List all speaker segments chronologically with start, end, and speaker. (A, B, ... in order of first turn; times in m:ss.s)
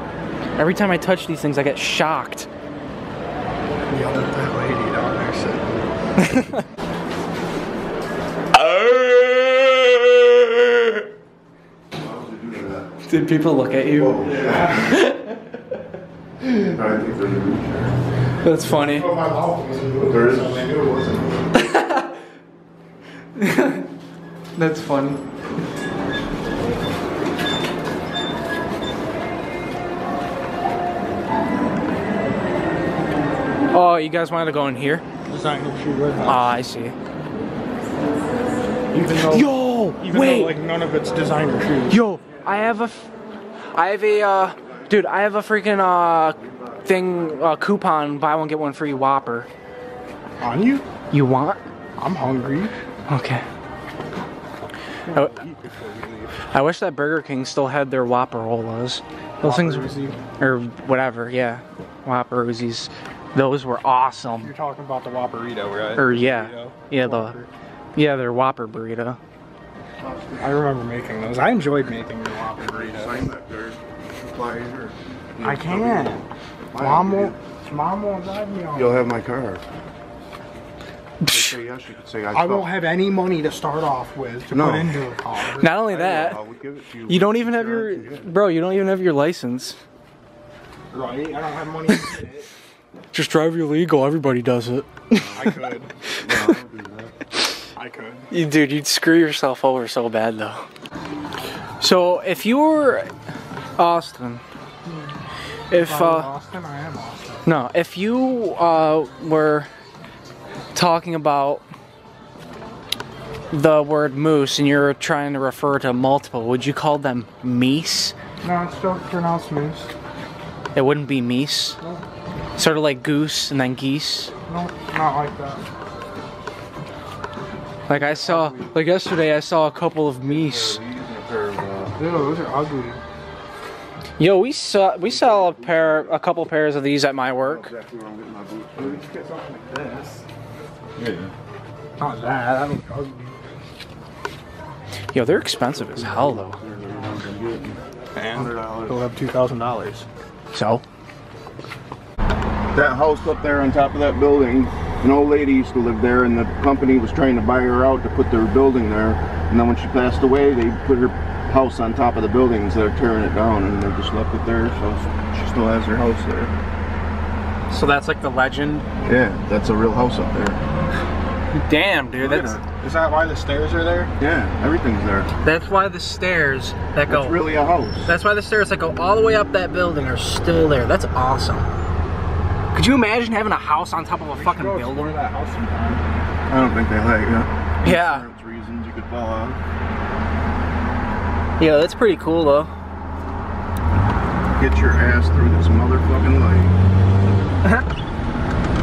0:00.6-0:02.5 A
0:03.9-0:05.7 B
0:06.2-0:06.6 A
0:08.7-0:09.1 A
0:11.9-0:12.9 C
0:13.0-0:14.3 A
0:14.0-0:15.0 C
0:14.3-0:14.8 B
0:14.8-0:15.4 A
0:16.4-0:18.0 C
0:18.4-0:19.1 A
0:18.7-0:21.4 B
0:20.0-0:21.2 C
0:21.6-0:22.0 A
0:23.4-0:23.8 A
0:24.6-0:25.2 A
0:33.7-0:35.0 A
0:35.3-0:36.5 B
0:36.2-0:37.0 A
0:38.9-0:42.0 B
0:39.3-0:40.6 A
0:41.9-0:43.1 A
0:43.7-0:49.5 A
0:50.4-0:50.9 B
0:51.1-0:51.6 A
0:52.0-0:52.7 B
0:53.1-0:53.4 A
0:55.1-0:56.4 B
0:55.1-0:55.4 A
0:56.5-1:04.5 A
0:59.4-1:00.2 B
1:04.3-1:07.5 B
1:06.0-1:07.4 A
1:08.0-1:09.2 A
1:10.0-1:10.6 C
1:10.4-1:13.2 B
1:12.6-1:17.4 C
1:15.4-1:19.1 B
1:18.7-1:19.6 C
1:21.2-1:21.6 A
1:21.3-1:22.8 C
1:22.3-1:25.8 B
1:24.5-1:25.0 C
1:25.5-1:26.4 A
1:25.9-1:28.3 C
1:27.1-1:29.8 A
1:30.9-1:32.5 B
1:33.1-1:35.6 A
1:35.1-1:35.6 C
1:35.3-1:35.9 B
1:36.2-1:37.2 C
1:37.8-1:38.3 B
1:38.3-1:40.6 A
1:41.8-1:43.1 A
1:43.8-1:44.4 A
1:45.7-1:46.3 A
1:45.7-1:47.5 B
1:47.4-1:49.7 A
1:50.7-1:51.6 A
1:53.5-1:58.2 A
1:58.4-1:59.9 B
2:00.8-2:01.8 A
2:02.6-2:04.3 A
2:04.5-2:05.6 B
2:07.9-2:10.8 A
2:07.9-2:08.8 C
2:10.2-2:12.0 C
2:12.0-2:13.0 B
2:14.2-2:17.7 A
2:15.0-2:16.2 C
2:17.4-2:20.2 C
2:21.0-2:21.3 C
2:22.0-2:23.4 B
2:25.1-2:26.6 A
2:25.7-2:29.1 C
2:28.2-2:30.1 B
2:30.5-2:30.8 A
2:32.7-2:46.5 C
2:47.7-2:48.9 A
2:49.0-2:50.6 C
2:51.6-2:52.6 A
2:52.2-2:52.6 C
2:52.8-2:54.1 B
2:54.2-2:55.3 C
2:55.4-3:01.7 A
2:57.1-2:58.1 C
3:02.7-3:05.2 A
3:04.3-3:06.0 B
3:06.5-3:09.6 C
3:07.8-3:08.3 A
3:11.6-3:12.7 A
3:14.6-3:16.8 C